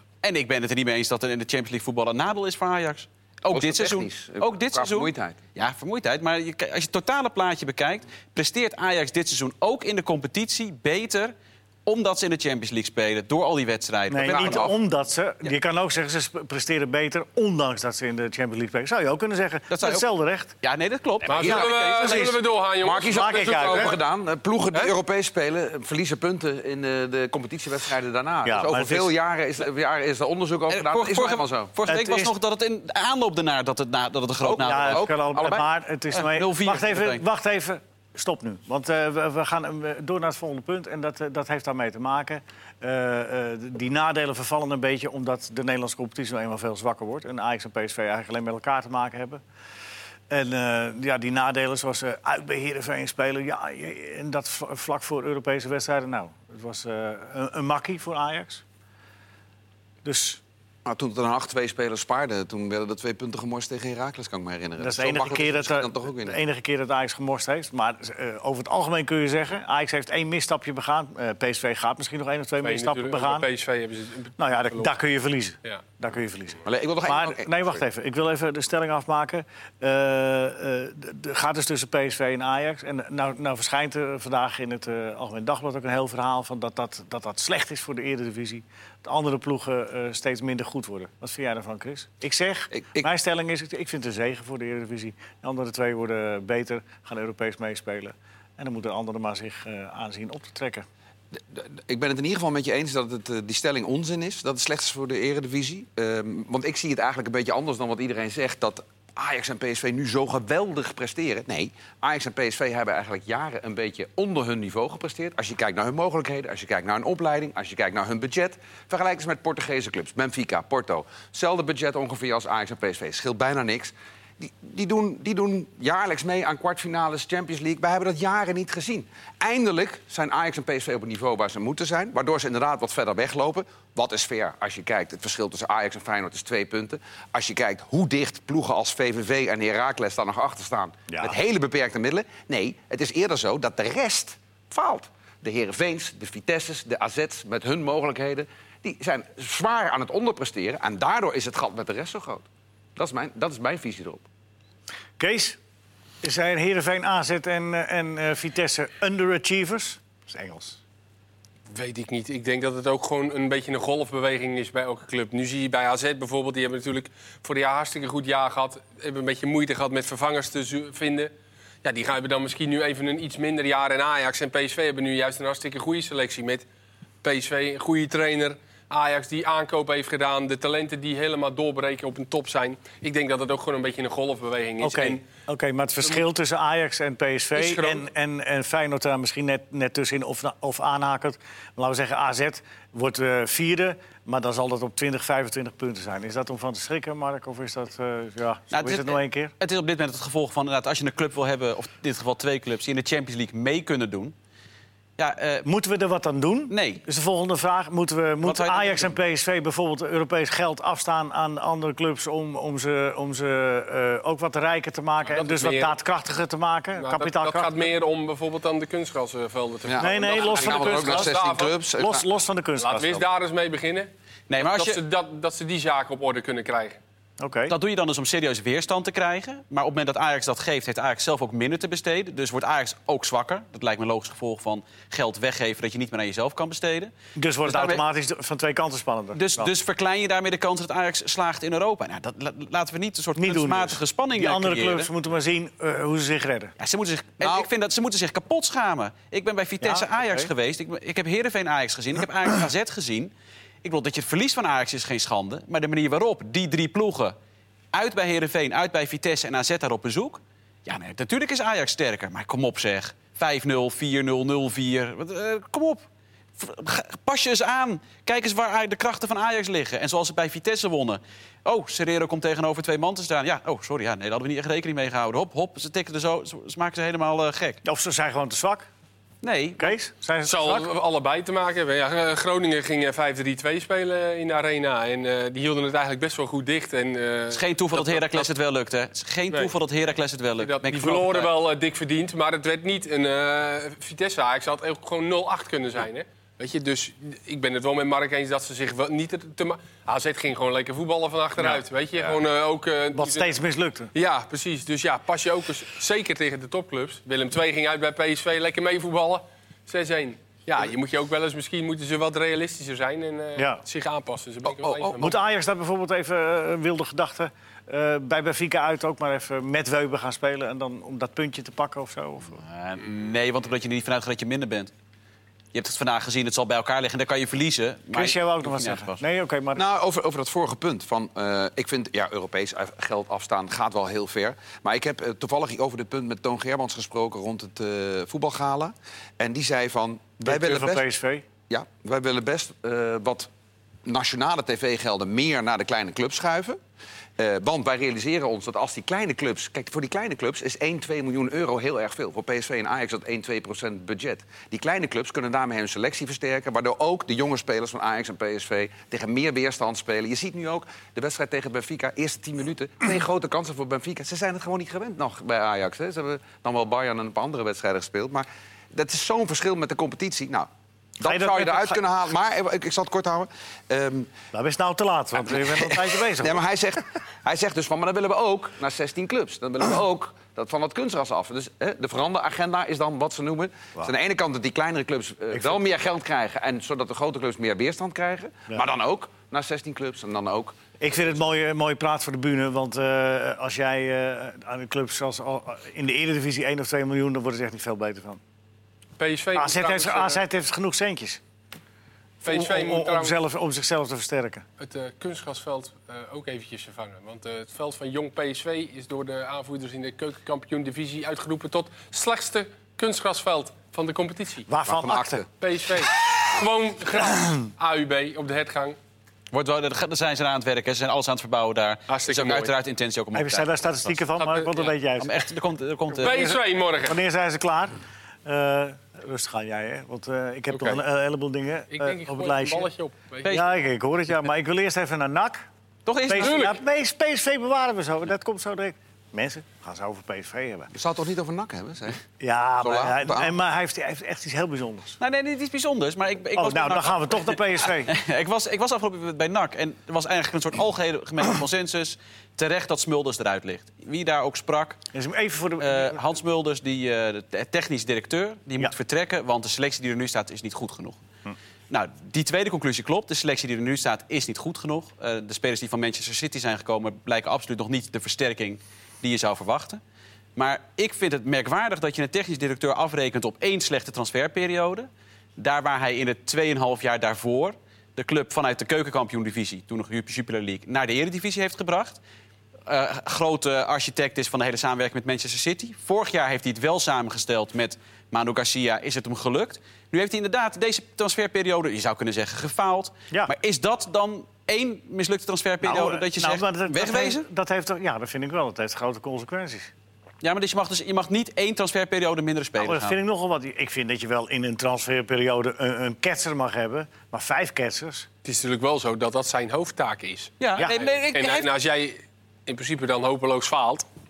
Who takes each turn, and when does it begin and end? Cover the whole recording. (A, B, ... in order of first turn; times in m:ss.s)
0:00.2-0:11.3 A
0:03.5-0:05.4 B
0:11.9-0:14.8 A
0:14.1-0:20.5 C
0:14.3-0:14.7 B
0:19.7-0:20.0 A
0:20.6-0:22.4 A
0:21.3-0:24.0 D
0:21.4-0:22.2 B
0:21.4-0:22.4 C
0:22.8-0:31.7 B
0:23.0-0:24.0 C
0:28.4-0:29.1 C
0:30.7-0:35.1 A
0:31.9-0:32.3 C
0:34.4-0:35.7 B
0:34.5-0:49.4 C
0:36.1-0:37.2 A
0:50.3-0:58.6 C
1:00.0-1:00.4 C
1:00.8-1:06.4 B
1:04.8-1:13.5 C
1:12.6-1:14.9 D
1:14.4-1:40.9 C
1:16.6-1:17.8 B
1:32.7-1:33.1 B
1:41.3-2:32.4 B
2:21.1-2:21.4 C
2:33.0-2:34.2 B
2:35.2-2:35.6 C
2:36.2-2:40.8 C
2:41.7-2:51.3 D
2:51.8-2:56.6 D
2:57.2-3:05.2 D
3:04.8-3:19.5 C
3:07.6-3:08.0 D
3:18.7-3:24.4 A
3:25.2-3:25.7 A
3:25.6-3:37.9 C
3:26.7-3:27.0 A
3:28.4-3:29.2 A
3:35.3-3:36.0 D
3:37.0-3:41.8 D
3:39.9-3:42.2 B
3:40.0-3:41.4 C
3:42.0-3:43.3 C
3:42.8-3:47.0 D
3:44.5-3:45.0 A
3:47.4-3:47.8 C
3:47.7-3:58.0 A
3:57.4-3:59.7 C
3:59.3-4:05.1 A
4:03.4-4:06.7 C
4:06.8-4:13.3 A
4:07.4-4:07.7 B
4:09.8-4:10.5 C
4:13.8-4:17.4 A
4:17.9-4:26.1 A
4:26.6-4:37.8 A
4:37.8-4:38.9 C
4:39.4-4:40.0 A
4:39.8-4:40.9 C
4:40.4-4:48.5 D
4:47.5-4:51.5 A
4:50.6-5:03.5 D
5:03.1-5:04.1 C
5:04.1-5:15.4 D
5:13.6-5:13.8 C
5:14.8-5:15.3 B
5:15.2-5:22.6 C
5:22.6-5:24.9 A
5:25.7-5:29.2 A
5:28.1-5:29.8 C
5:29.7-5:41.0 B
5:40.4-5:41.5 C
5:41.7-5:43.5 B
5:44.0-5:46.8 B
5:47.4-6:14.3 B
6:11.2-6:12.0 C
6:14.5-6:16.6 C
6:15.4-6:31.0 B
6:31.0-6:38.4 C
6:39.2-6:40.4 D
6:39.6-6:41.4 C
6:42.4-6:44.6 C
6:42.4-6:43.4 D
6:44.8-6:54.7 D
6:54.7-6:55.4 C
6:54.9-6:55.5 B
6:55.6-6:59.0 D
6:57.2-6:57.6 C
6:59.5-7:04.1 A
7:02.1-7:02.7 D
7:03.3-7:05.4 C
7:04.4-7:04.9 D
7:05.2-7:06.6 A
7:06.2-7:07.2 D
7:06.4-7:12.9 C
7:10.7-7:11.0 D
7:11.9-7:13.7 D
7:13.4-7:13.7 A
7:13.4-7:15.7 C
7:16.1-7:16.6 A
7:16.3-7:20.9 C
7:16.4-7:16.8 D
7:21.0-7:22.2 B
7:22.4-7:25.2 C
7:22.8-7:23.5 B
7:25.2-7:35.0 A
7:26.6-7:28.2 C
7:35.1-7:36.3 C
7:35.8-7:41.2 A
7:41.9-7:50.0 A
7:50.6-8:02.2 A
8:02.9-8:17.4 A
8:15.8-8:19.9 C
8:20.4-8:23.2 A
8:22.8-8:28.3 C
8:28.4-8:34.0 D
8:30.6-8:31.7 A